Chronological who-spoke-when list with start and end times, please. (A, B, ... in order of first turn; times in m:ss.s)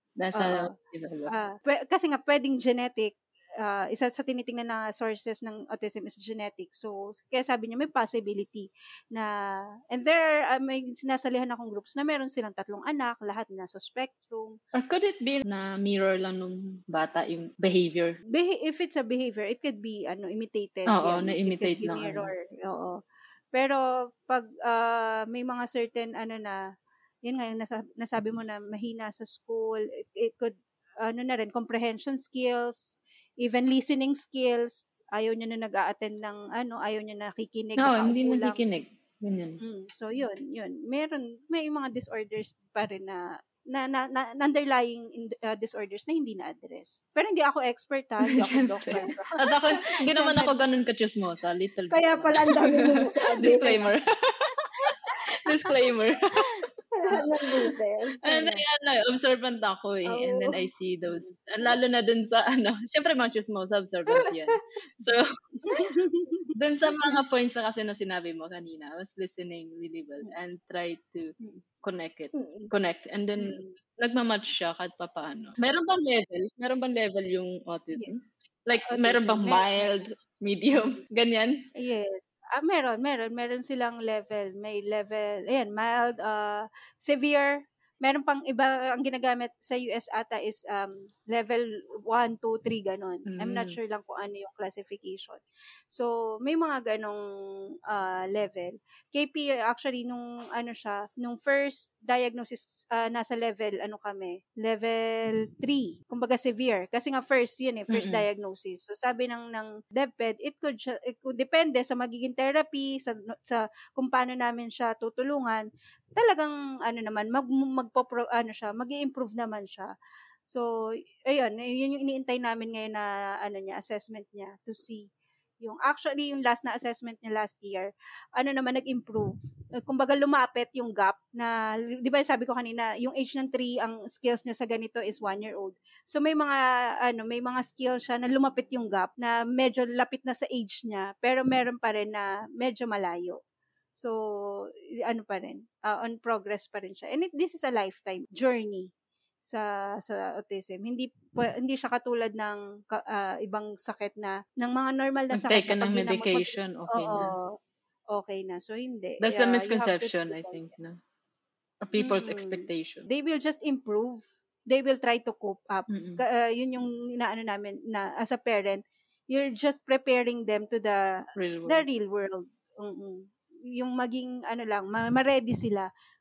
0:00.2-0:01.3 A
0:00.4-0:00.7 B
0:01.3-0:09.3 B
0:09.9-0:14.6 B
0:14.8-0:18.2 A
0:18.3-0:23.0 B
0:20.9-0:22.3 A
0:23.5-0:26.6 B
0:27.3-0:38.6 B
0:37.8-0:39.6 A
0:39.6-0:49.4 B
0:48.3-0:57.5 A
0:50.1-0:50.6 B
0:51.9-0:53.9 C
0:57.0-0:58.6 C
0:58.2-1:05.2 A
1:00.1-1:00.7 C
1:05.6-1:06.5 B
1:06.6-1:21.6 A
1:12.4-1:12.7 C
1:13.4-1:13.7 B
1:18.0-1:19.7 B
1:21.8-1:37.2 B
1:33.3-1:33.8 A
1:37.9-1:59.9 B
1:47.9-1:48.3 A
2:01.3-2:05.1 B
2:05.6-2:23.4 B
2:24.0-2:28.9 B
2:29.4-2:37.5 B
2:35.3-2:37.3 A
2:38.1-2:40.6 B
2:39.2-2:41.0 A
2:41.8-2:43.1 A
2:42.0-2:55.9 B
2:45.9-2:46.2 A
2:51.4-2:51.9 A